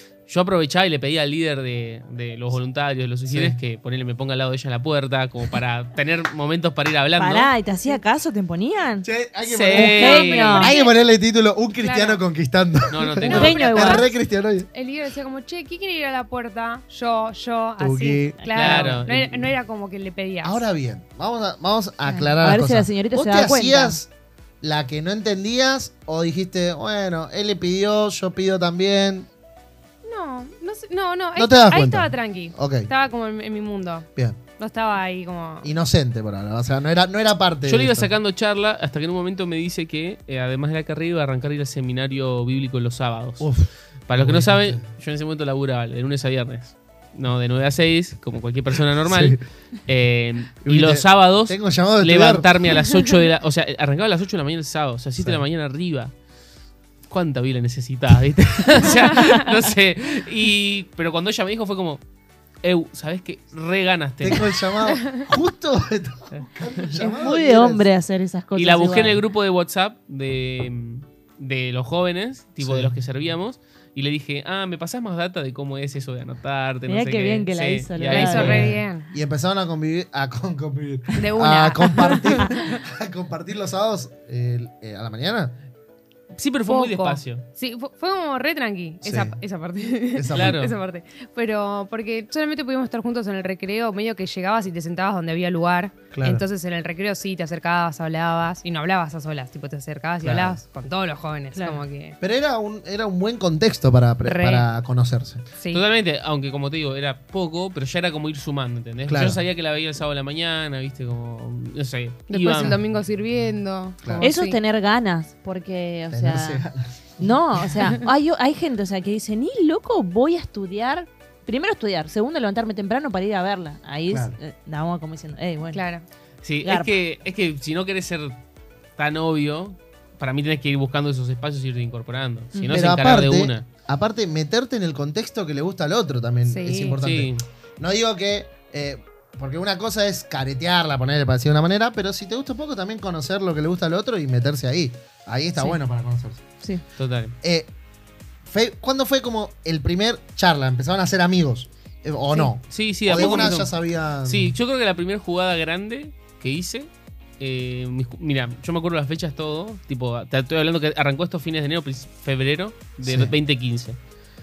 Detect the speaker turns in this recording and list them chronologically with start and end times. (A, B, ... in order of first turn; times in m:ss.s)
0:00.3-0:07.5 A
0:03.2-0:03.6 B
0:07.2-0:09.1 C
0:09.0-0:14.7 B
0:09.4-0:10.7 A
0:09.7-0:10.7 C
0:10.1-0:11.0 D
0:11.8-0:12.2 D
0:12.9-0:13.6 A
0:13.2-0:14.2 D
0:13.3-0:14.0 C
0:14.7-0:20.6 D
0:17.8-0:19.2 B
0:18.5-0:19.4 A
0:20.4-0:24.1 B
0:22.0-0:24.0 C
0:24.6-0:29.3 B
0:30.0-0:35.7 D
0:31.4-0:32.9 B
0:35.6-0:38.1 B
0:37.6-0:43.5 A
0:43.4-0:44.8 B
0:44.1-0:56.1 A
0:49.0-0:49.4 B
0:50.6-0:52.5 B
0:55.2-0:55.4 B
0:57.1-1:02.0 A
1:02.6-1:04.6 A
1:04.2-1:07.8 B
1:04.8-1:05.2 D
1:07.0-1:07.3 D
1:07.2-1:09.2 C
1:08.5-1:18.8 A
1:12.6-1:12.9 B
1:16.9-1:18.6 C
1:18.1-1:19.1 D
1:18.4-1:25.5 B
1:21.2-1:22.6 D
1:26.4-1:27.4 A
1:26.7-1:42.2 D
1:29.0-1:29.4 B
1:30.1-1:30.6 B
1:30.3-1:30.8 A
1:36.1-1:36.4 B
1:40.2-1:40.6 B
1:41.5-1:41.8 C
1:42.2-1:45.4 B
1:44.2-1:44.6 D
1:45.7-1:52.8 A
1:49.1-1:49.4 B
1:52.3-1:54.6 D
1:52.5-1:52.8 B
1:54.0-1:54.3 B
1:54.2-1:56.6 C
1:56.1-1:57.3 B
1:57.2-2:05.8 C
2:04.1-2:04.4 B
2:05.7-2:06.0 D
2:06.4-2:08.4 A
2:06.6-2:06.9 C
2:09.0-2:13.7 A
2:12.5-2:12.9 C
2:12.7-2:26.4 B
2:16.5-2:17.0 D
2:17.0-2:17.4 A
2:27.0-2:27.3 A
2:27.4-2:27.7 B
2:28.5-2:34.6 B
2:32.7-2:33.7 A
2:34.2-2:44.0 A
2:43.0-2:43.3 B